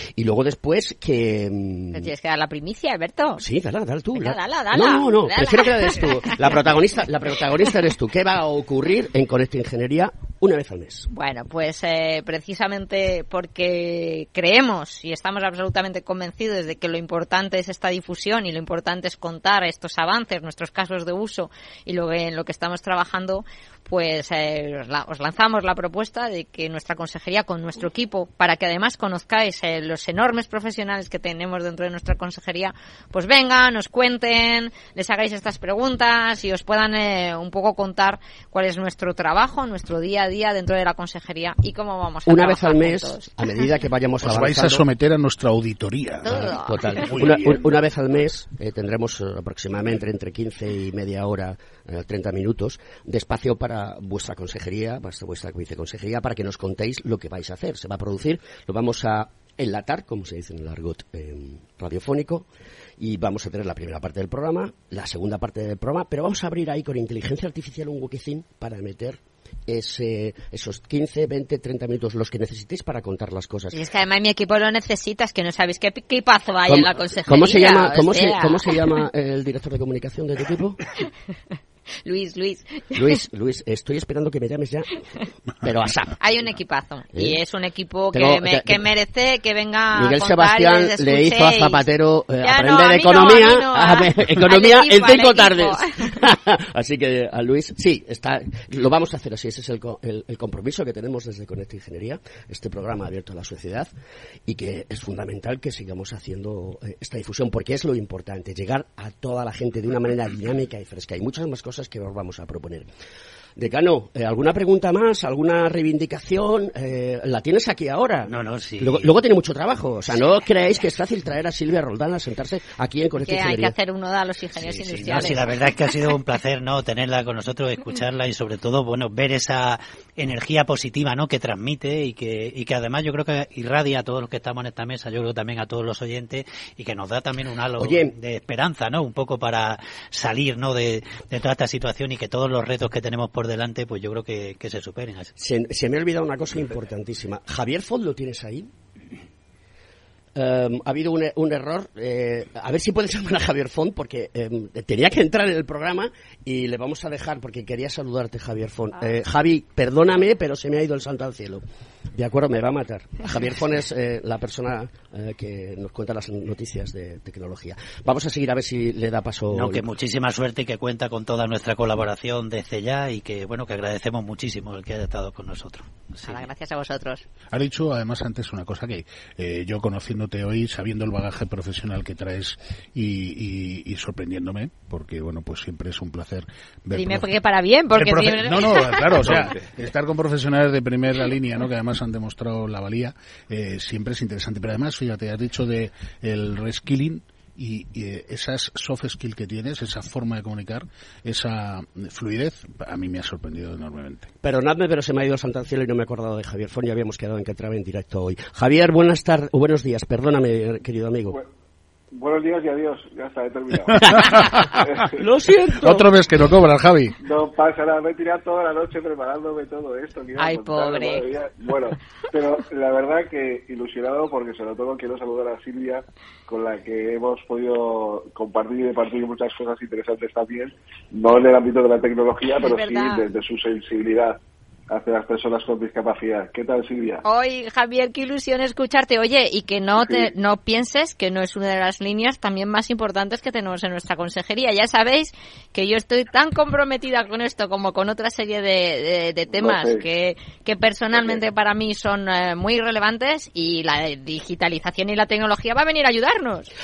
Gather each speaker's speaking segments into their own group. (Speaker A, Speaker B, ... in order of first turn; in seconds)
Speaker A: 0.2-2.1, 3.4-11.1, 42.3-44.8, 46.3-62.5, 63.0-73.8, 76.7-80.8, 83.0-85.0, 85.6-86.2, 88.1-88.8, 89.9-103.9, 104.5-112.9, 113.6-123.7, 124.5-125.5, 137.8-138.2, 145.4-148.7, 150.3-169.8, 204.4-211.4, 215.5-216.0
Speaker B: 1.9-3.4, 4.2-6.5, 11.1-43.3, 46.2-47.1, 73.7-78.8, 82.0-83.2, 86.2-91.8, 92.4-96.2, 123.2-125.4, 176.2-177.2, 186.9-189.5, 220.4-221.2, 232.6-233.2, 237.2-256.7
Speaker C: 44.2-47.7, 177.5-187.3, 187.9-204.3, 214.1-217.2
Speaker D: 118.3-119.1, 125.0-145.3, 169.5-176.4
Speaker E: 212.2-215.2, 217.2-234.4, 234.9-237.2, 240.0-240.3, 249.6-250.1